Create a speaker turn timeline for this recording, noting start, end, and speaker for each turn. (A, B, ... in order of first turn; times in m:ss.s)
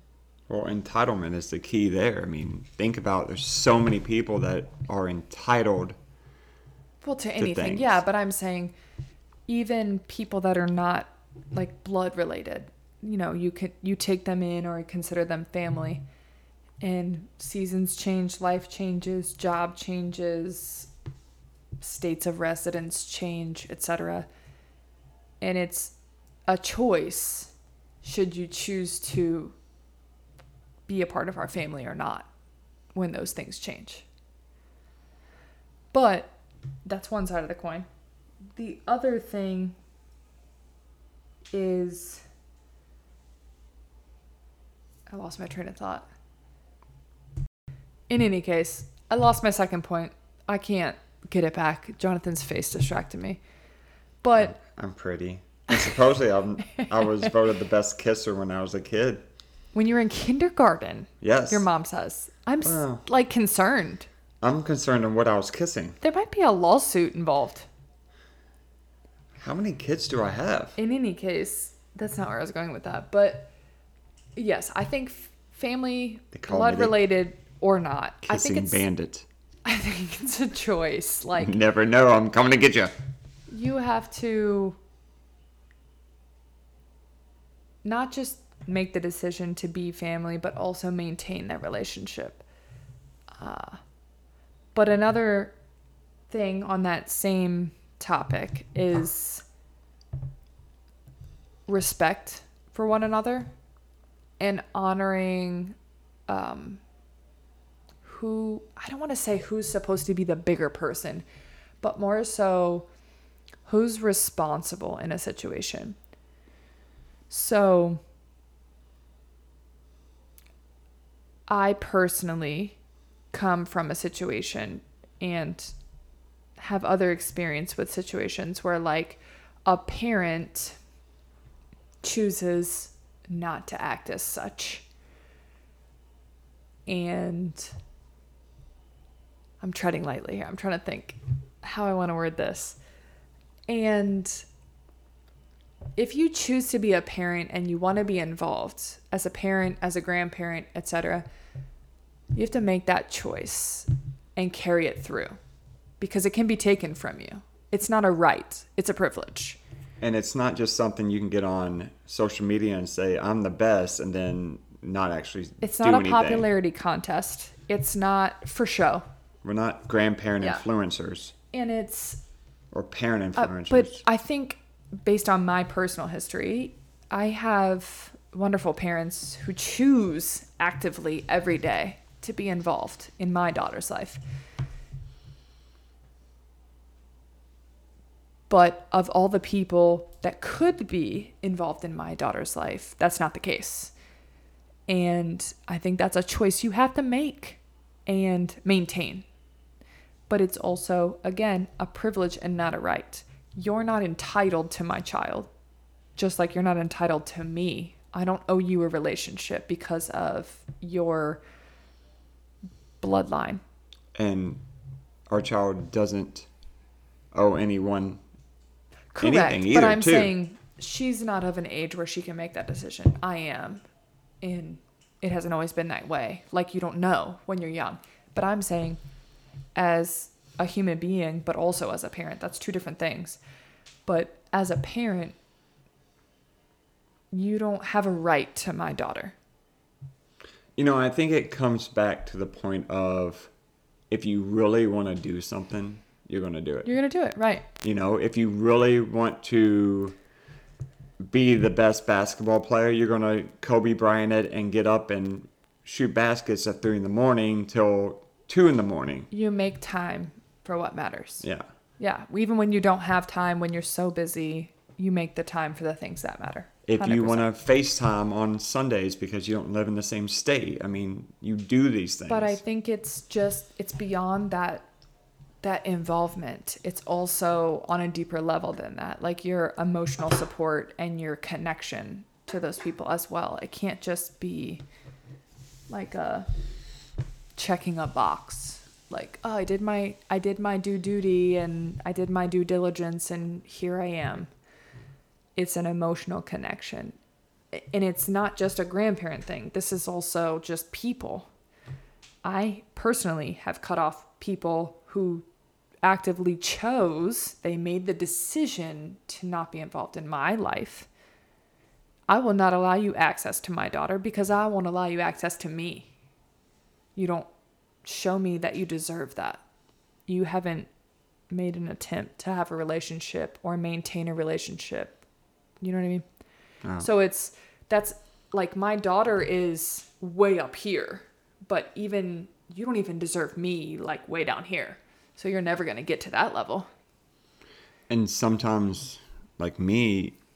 0:00.5-0:06.0 A
0:07.0-0:08.7 B
0:07.4-0:08.0 A
0:09.5-0:16.0 B
0:16.8-0:20.9 B
0:21.8-0:24.3 B
0:25.4-0:25.9 B
0:26.5-0:27.5 B
0:28.0-0:29.5 B
0:30.9-0:32.3 B
0:32.9-0:34.0 B
0:35.9-0:36.3 B
0:36.8-0:37.9 B
0:38.6-0:39.7 B
0:41.5-0:42.2 B
0:45.1-0:46.0 B
0:48.1-0:53.4 B
0:54.2-0:54.6 B
0:54.4-0:59.2 A
0:59.7-1:04.1 B
1:01.2-1:01.7 A
1:02.6-1:03.0 A
1:04.4-1:06.0 A
1:06.0-1:07.7 B
1:09.4-1:10.8 A
1:10.8-1:13.5 B
1:14.4-1:18.8 B
1:16.3-1:17.0 A
1:18.2-1:19.2 A
1:19.6-1:21.6 B
1:21.4-1:22.9 A
1:23.5-1:24.8 B
1:27.8-1:32.4 B
1:33.4-1:33.8 B
1:34.7-1:35.5 B
1:36.3-1:39.4 B
1:41.7-1:43.5 B
1:44.4-1:45.8 B
1:46.3-1:46.8 B
1:48.0-1:51.2 B
1:51.8-1:52.9 B
1:53.6-1:56.0 B
1:57.3-1:58.0 B
2:01.5-2:02.8 B
2:03.3-2:05.7 B
2:06.6-2:10.8 B
2:12.0-2:14.8 B
2:16.9-2:17.7 B
2:19.6-2:22.8 B
2:23.7-2:24.4 B
2:26.0-2:31.2 B
2:32.3-2:35.4 B
2:36.0-2:39.6 B
2:40.0-2:46.5 A
2:45.6-2:49.0 B
2:49.4-2:51.3 A
2:51.5-2:52.2 B
2:52.7-2:54.0 A
2:53.4-3:04.2 B
3:08.5-3:13.9 B
3:14.9-3:19.2 B
3:20.3-3:25.5 B
3:26.2-3:31.4 B
3:33.0-3:33.6 B
3:34.2-3:34.6 A
3:35.3-3:36.5 A
3:37.3-3:38.2 A
3:39.1-3:43.8 B
3:39.2-3:40.3 A
3:44.4-3:49.0 B
3:49.7-3:53.4 B
3:54.0-3:55.4 B
3:57.3-3:59.3 B
4:00.8-4:03.5 A
4:04.1-4:06.9 A
4:06.8-4:07.7 B
4:07.8-4:10.2 A
4:11.2-4:19.3 A
4:19.3-4:21.4 B
4:22.0-4:27.5 B
4:26.8-4:32.6 A
4:32.3-4:34.8 B
4:35.6-4:44.8 B
4:45.9-4:46.5 B
4:47.6-4:54.5 B
4:55.6-4:57.2 B
4:57.7-5:01.5 B
5:02.4-5:05.4 B
5:06.0-5:11.1 B
5:12.3-5:16.1 B
5:17.2-5:17.5 B
5:18.0-5:19.6 B
5:20.3-5:20.9 B
5:21.5-5:25.2 B
5:25.8-5:26.2 B
5:26.8-5:27.1 A
5:27.0-5:36.9 B
5:38.1-5:40.4 A